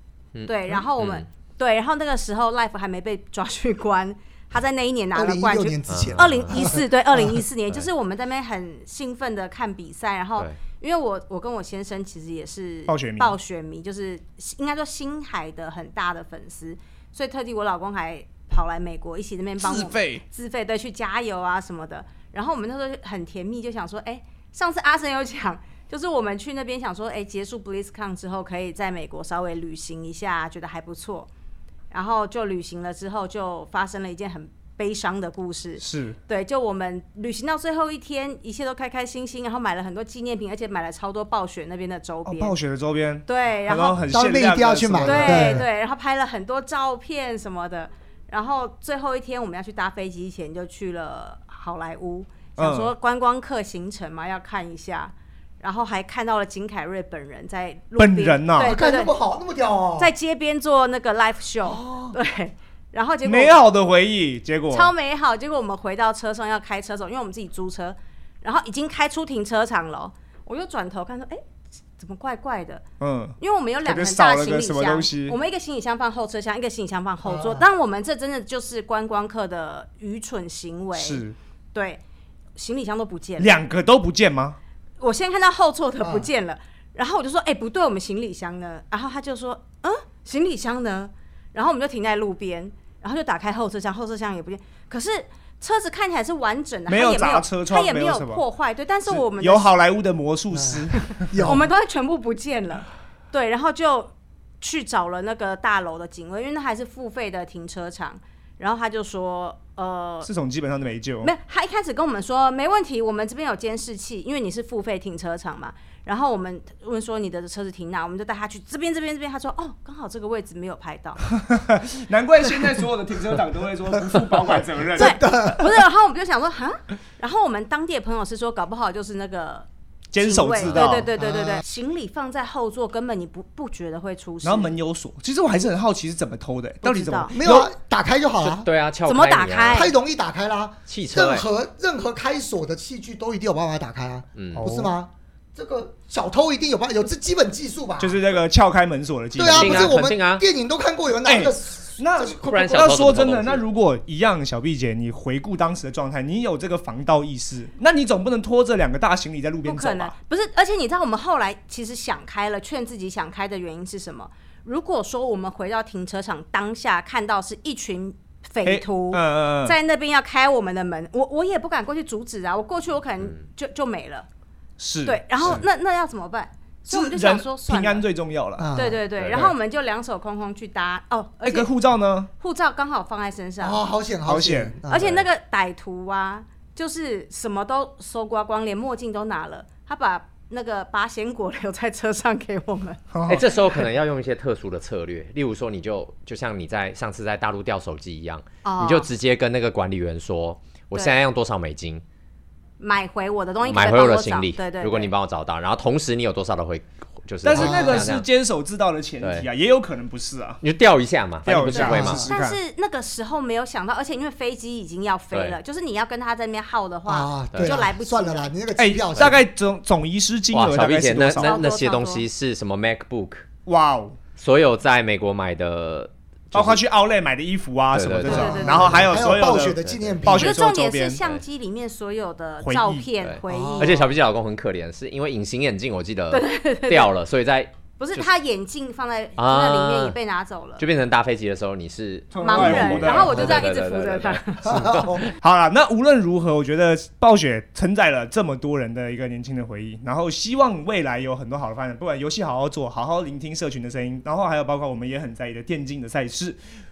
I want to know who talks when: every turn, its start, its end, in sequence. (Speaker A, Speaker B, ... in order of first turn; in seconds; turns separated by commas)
Speaker A: 0.3-1.3, Speaker B: 0.5-31.3, Speaker C: 5.1-7.4, Speaker A: 5.9-6.7, Speaker D: 12.9-13.4, Speaker D: 19.6-20.2, Speaker B: 31.9-42.5, Speaker D: 35.8-36.2, Speaker D: 42.3-45.6, Speaker B: 43.3-44.0, Speaker C: 44.1-45.7, Speaker B: 45.0-59.1, Speaker D: 52.6-52.9, Speaker D: 58.0-58.8, Speaker C: 58.6-60.1, Speaker B: 60.0-63.6, Speaker C: 61.6-62.2, Speaker D: 63.2-64.9, Speaker B: 64.7-71.4, Speaker B: 72.0-72.8, Speaker D: 73.0-75.4, Speaker B: 73.4-82.0, Speaker C: 77.2-77.7, Speaker D: 81.0-81.3, Speaker B: 82.6-83.6, Speaker D: 83.4-84.6, Speaker B: 85.0-99.7, Speaker C: 86.0-86.3, Speaker D: 96.9-98.4, Speaker D: 99.1-101.5, Speaker C: 100.5-101.7, Speaker B: 101.4-110.3, Speaker D: 110.2-111.3, Speaker B: 111.2-121.3, Speaker D: 121.5-125.7, Speaker C: 124.8-125.7, Speaker B: 125.0-134.8, Speaker D: 130.1-131.1, Speaker C: 131.2-131.6, Speaker D: 134.4-137.7, Speaker B: 136.9-137.3, Speaker C: 136.9-138.7, Speaker A: 138.4-139.9, Speaker B: 139.1-139.9, Speaker C: 139.7-148.2, Speaker A: 140.9-141.5, Speaker A: 144.4-144.7, Speaker D: 144.5-144.9, Speaker D: 148.0-150.0, Speaker C: 149.4-153.1, Speaker A: 149.4-150.4, Speaker D: 151.2-160.1, Speaker A: 152.4-153.6, Speaker B: 159.7-174.3, Speaker D: 168.7-169.8, Speaker D: 174.8-175.7, Speaker B: 175.1-178.1, Speaker D: 176.9-178.7, Speaker C: 178.6-179.0, Speaker B: 178.8-181.7, Speaker D: 179.2-179.5, Speaker D: 181.4-182.3, Speaker B: 182.4-183.8, Speaker C: 183.6-185.3, Speaker D: 184.3-184.8, Speaker B: 184.9-193.0, Speaker C: 193.1-193.6, Speaker A: 193.3-202.0, Speaker B: 198.7-199.1, Speaker B: 202.8-205.1, Speaker A: 203.6-208.3, Speaker D: 207.4-210.6, Speaker C: 207.5-208.1, Speaker A: 209.2-209.5, Speaker A: 210.6-212.2, Speaker D: 211.4-212.6, Speaker B: 211.7-218.5, Speaker C: 211.9-212.3, Speaker A: 215.3-215.6, Speaker C: 217.1-219.4, Speaker D: 218.8-221.6, Speaker A: 220.5-223.5, Speaker B: 221.4-222.2, Speaker D: 223.7-224.2, Speaker A: 224.4-226.8, Speaker D: 226.5-231.2, Speaker A: 227.9-230.2, Speaker B: 228.2-229.1, Speaker C: 228.3-230.6, Speaker B: 230.3-234.0, Speaker D: 232.6-233.1, Speaker A: 233.2-238.3, Speaker C: 233.4-234.1, Speaker B: 236.3-237.1, Speaker B: 238.0-240.9, Speaker A: 239.4-240.2, Speaker A: 240.8-245.3, Speaker D: 242.3-243.7, Speaker B: 242.4-244.8, Speaker C: 244.6-245.3, Speaker D: 245.4-256.6